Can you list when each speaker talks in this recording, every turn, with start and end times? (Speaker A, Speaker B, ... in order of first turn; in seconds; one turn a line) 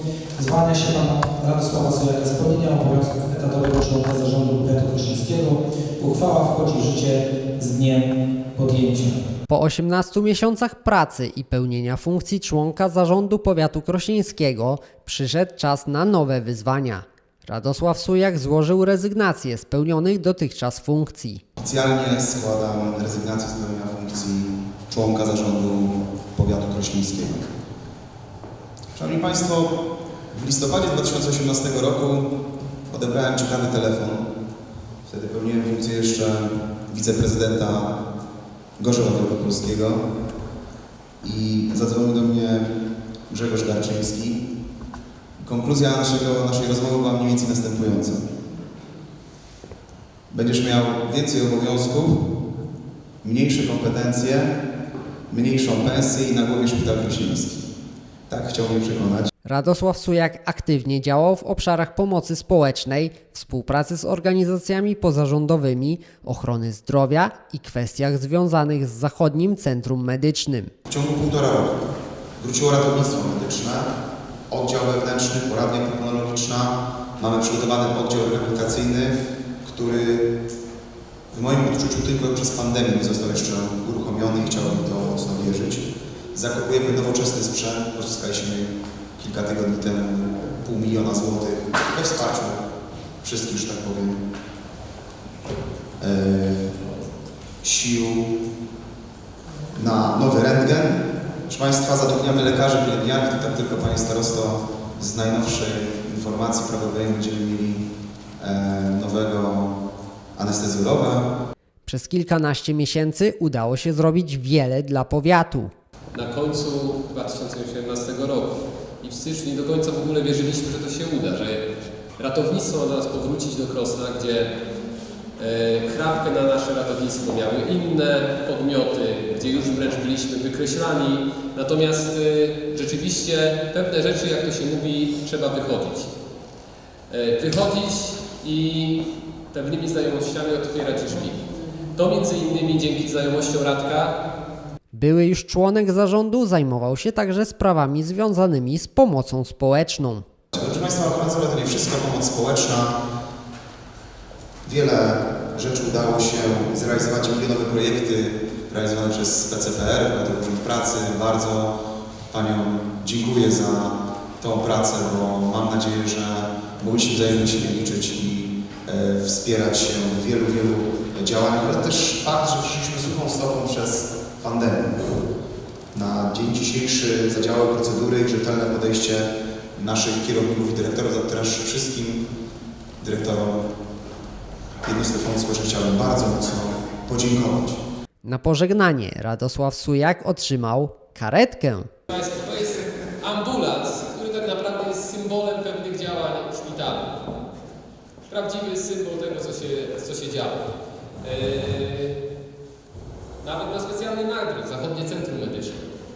Speaker A: 0.3-9.2
Speaker B: 9.5-21.4
Speaker C: 21.6-27.4
Speaker C: 28.9-29.8
Speaker C: 30.3-32.3
Speaker C: 32.9-34.3
Speaker C: 35.0-37.9
Speaker C: 38.8-40.0
Speaker C: 41.2-42.7
Speaker C: 43.3-44.4
Speaker C: 45.4-48.2
Speaker C: 50.3-52.2
Speaker C: 53.2-54.5
Speaker C: 55.3-57.6
Speaker C: 58.3-59.3
Speaker B: 59.5-70.7
Speaker C: 70.9-71.8
Speaker C: 72.4-73.9
Speaker C: 74.5-80.3
Speaker C: 81.3-92.6
Speaker C: 93.2-94.2
Speaker C: 96.0-96.8
Speaker C: 97.6-98.3
Speaker C: 99.7-107.9
Speaker C: 108.4-109.7
Speaker C: 110.3-111.3
Speaker B: 111.8-115.7
Speaker D: 116.1-121.6
Speaker D: 122.2-124.5
Speaker D: 125.4-136.1
Speaker D: 137.1-144.2
Speaker B: 144.9-150.2
Speaker C: 150.5-153.0
Speaker C: 154.6-161.7
Speaker C: 162.3-175.0
Speaker C: 175.9-182.2
Speaker C: 183.0-183.6
Speaker C: 184.8-187.8
Speaker B: 188.2-191.9
Speaker D: 192.1-197.2
Speaker D: 198.2-200.6
Speaker D: 201.2-202.2
Speaker D: 203.4-205.8